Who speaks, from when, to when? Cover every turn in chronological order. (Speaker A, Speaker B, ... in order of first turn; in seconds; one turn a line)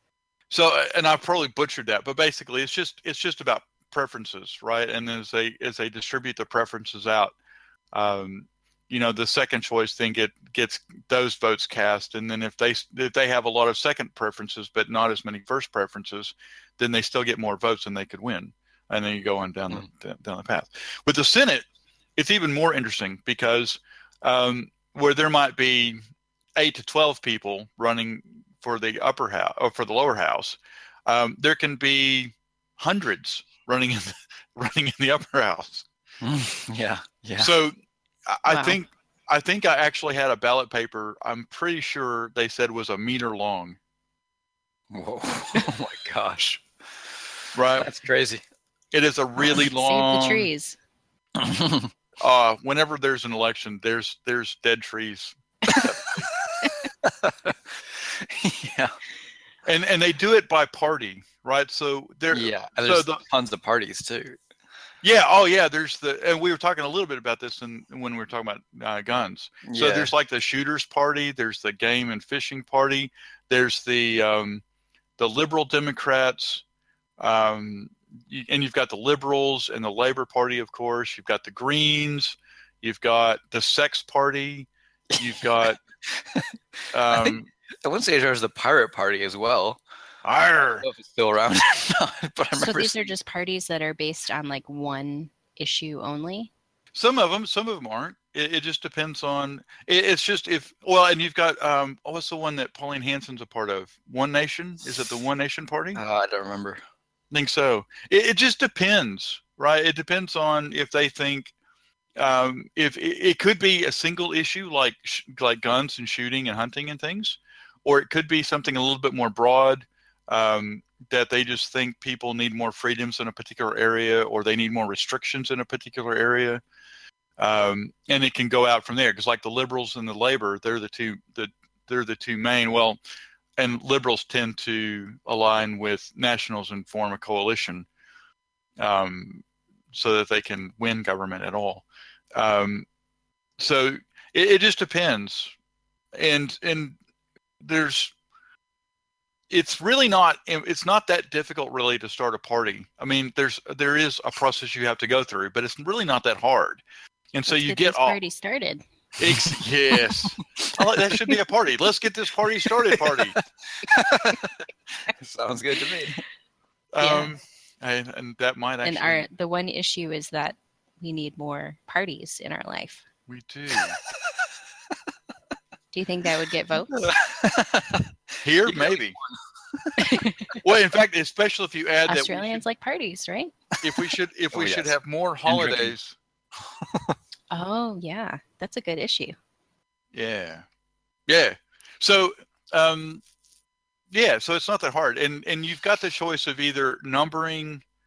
Speaker A: 0.5-7.3
Speaker A: 7.9-21.6
Speaker A: 22.2-26.0
Speaker A: 26.6-35.9
Speaker B: 36.2-37.5
Speaker A: 37.4-37.7
Speaker A: 38.3-43.8
Speaker C: 38.5-38.8
Speaker B: 44.9-47.1
Speaker A: 47.5-47.9
Speaker B: 47.8-48.4
Speaker A: 48.9-50.5
Speaker C: 49.5-50.8
Speaker B: 51.4-51.9
Speaker A: 52.2-56.3
Speaker B: 55.7-59.0
Speaker A: 59.7-63.2
Speaker B: 62.3-64.4
Speaker A: 65.0-74.6
Speaker B: 69.6-70.1
Speaker A: 75.2-76.6
Speaker A: 77.2-85.8
Speaker B: 85.1-86.6
Speaker A: 86.9-87.5
Speaker B: 87.1-89.8
Speaker A: 90.2-90.9
Speaker B: 90.8-93.1
Speaker C: 92.5-96.5
Speaker A: 96.9-106.0
Speaker B: 105.9-106.8
Speaker A: 107.3-111.5
Speaker A: 112.2-126.6
Speaker A: 127.4-133.0
Speaker A: 133.6-137.9
Speaker A: 138.8-142.9
Speaker A: 143.6-145.5
Speaker A: 146.2-147.0
Speaker A: 147.6-148.1
Speaker A: 149.5-156.8
Speaker A: 157.3-158.2
Speaker C: 157.5-158.8
Speaker A: 159.2-163.4
Speaker B: 159.2-159.6
Speaker B: 162.9-166.2
Speaker A: 166.9-169.2
Speaker C: 167.0-167.3
Speaker C: 168.8-173.1
Speaker A: 173.3-174.0
Speaker B: 174.2-174.5
Speaker C: 175.9-177.1
Speaker B: 176.9-180.6
Speaker A: 178.4-179.2
Speaker C: 180.0-180.6
Speaker A: 180.6-182.6
Speaker C: 182.1-183.5
Speaker B: 183.8-184.9
Speaker A: 183.8-186.2
Speaker B: 185.5-185.9
Speaker B: 186.6-187.2
Speaker C: 187.5-189.4
Speaker A: 190.1-190.7
Speaker A: 191.3-193.2
Speaker A: 194.1-197.8